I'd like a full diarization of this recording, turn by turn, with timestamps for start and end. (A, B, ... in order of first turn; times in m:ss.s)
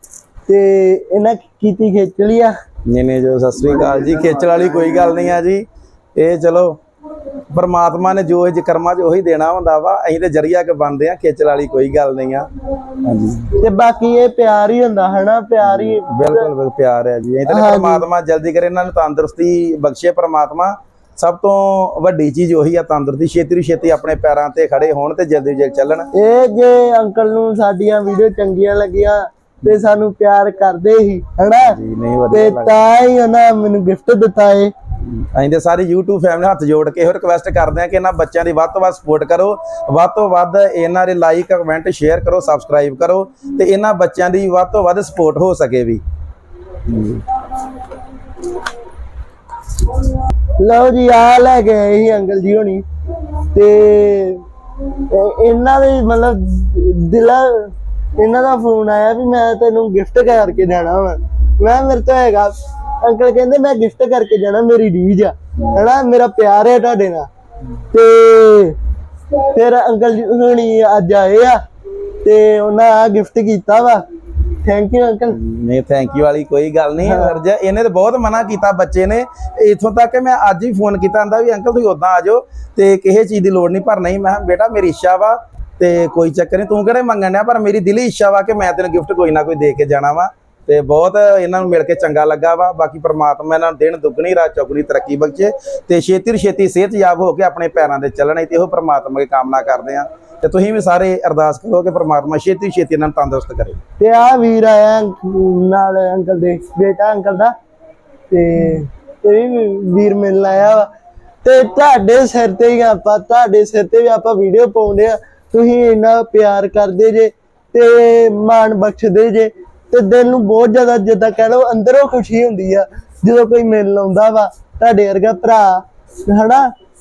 0:00.5-0:02.5 A
0:02.9-0:05.6 B
0:06.2-0:06.8 B
0:07.5-0:12.5 B
0:13.0-0:13.5 B
0:13.6-0:16.5 A
0:15.6-0:26.1 B
0:17.5-0:18.0 A
0:26.1-0:31.8 A
0:31.6-0:32.8 B
0:32.3-0:34.7 A
0:35.2-0:46.0 B
0:46.8-0:47.2 B
0:50.6-0:52.8 A
0:53.5-0:54.4 A
0:55.0-1:07.3 A
1:07.9-1:08.8 A
1:09.5-1:11.6 A
1:12.2-1:14.0 A
1:14.6-1:15.4 A
1:15.3-1:43.8 B
1:17.0-1:17.4 A
1:44.0-1:47.5 A
1:48.3-1:50.9 A
1:51.4-2:06.7 A